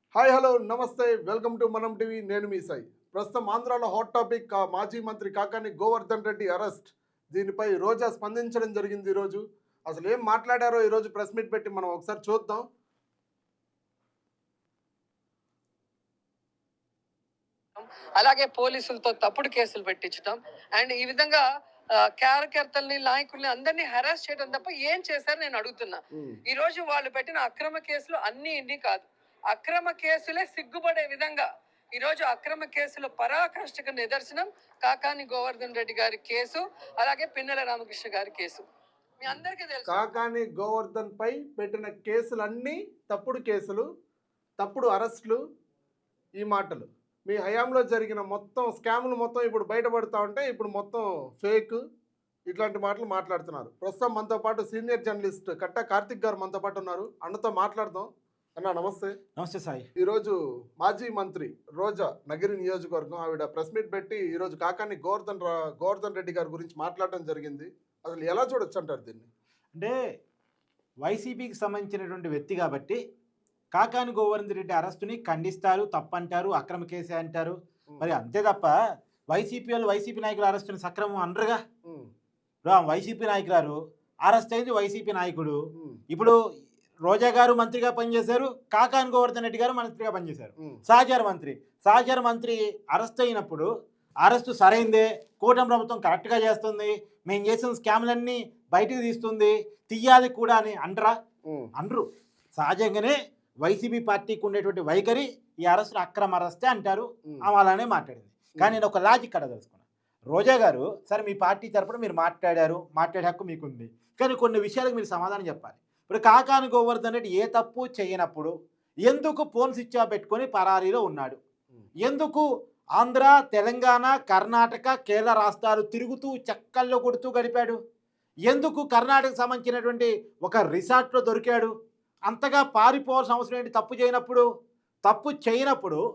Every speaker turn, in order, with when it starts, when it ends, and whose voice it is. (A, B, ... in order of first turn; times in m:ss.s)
0:00.2-0:12.6 A
0:17.8-0:21.4 B
0:22.2-0:38.6 B
0:39.2-0:40.0 B
0:39.3-0:43.8 A
0:44.6-0:45.4 A
0:46.4-0:51.8 A
0:52.5-0:59.2 A
0:59.4-0:59.9 C
1:00.0-1:09.3 A
1:11.0-1:13.0 C
1:13.7-1:18.7 C
1:19.3-1:21.6 C
1:22.6-1:25.6 C
1:27.0-1:33.7 C
1:34.2-1:41.1 C
1:41.8-1:49.8 C
1:50.3-1:58.5 C
1:59.1-2:01.4 C
2:02.0-2:02.4 C
2:03.0-2:07.8 C
2:08.5-2:11.7 C
2:12.3-2:14.4 C
2:15.0-2:16.0 C